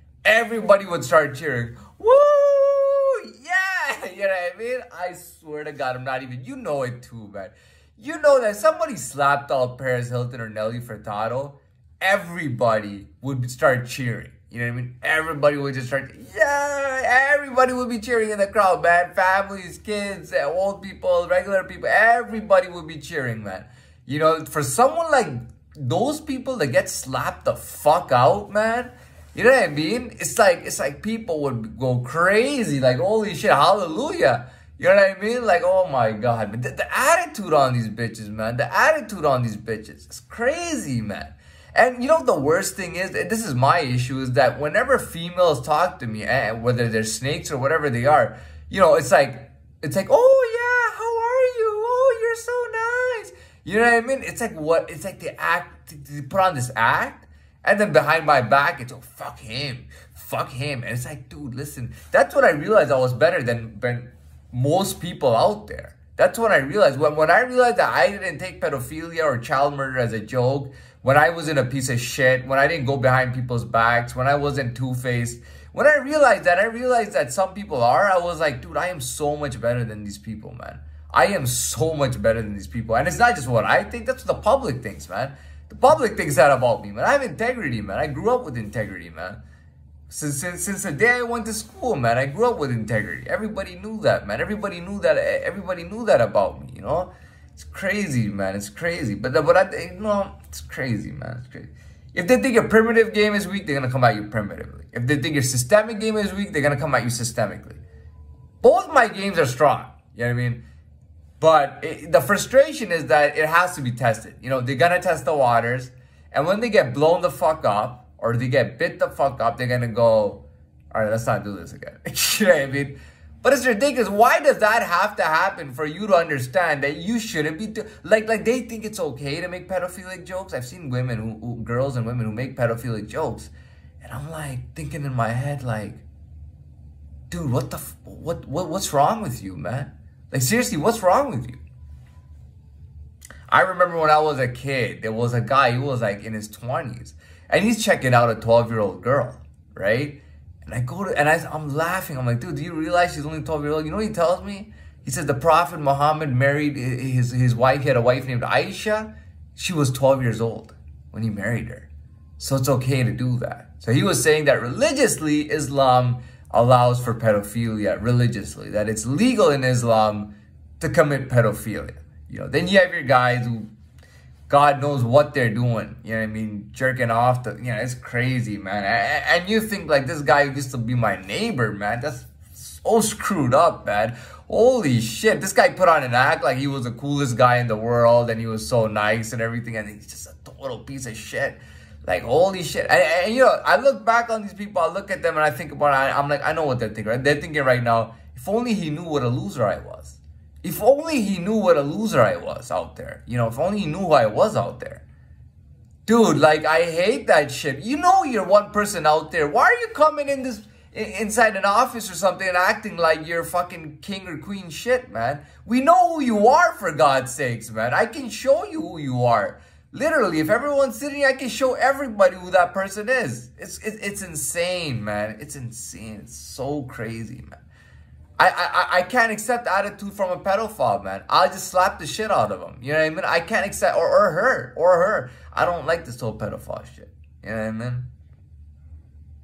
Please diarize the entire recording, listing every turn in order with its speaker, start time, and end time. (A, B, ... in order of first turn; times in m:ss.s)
0:00.2-1:29.4 A
1:30.1-1:47.8 A
1:48.6-1:50.6 A
1:51.4-2:16.0 A
2:17.3-2:21.6 A
2:23.5-2:53.7 A
2:54.5-3:25.0 A
3:26.0-3:47.6 A
3:48.4-3:58.1 A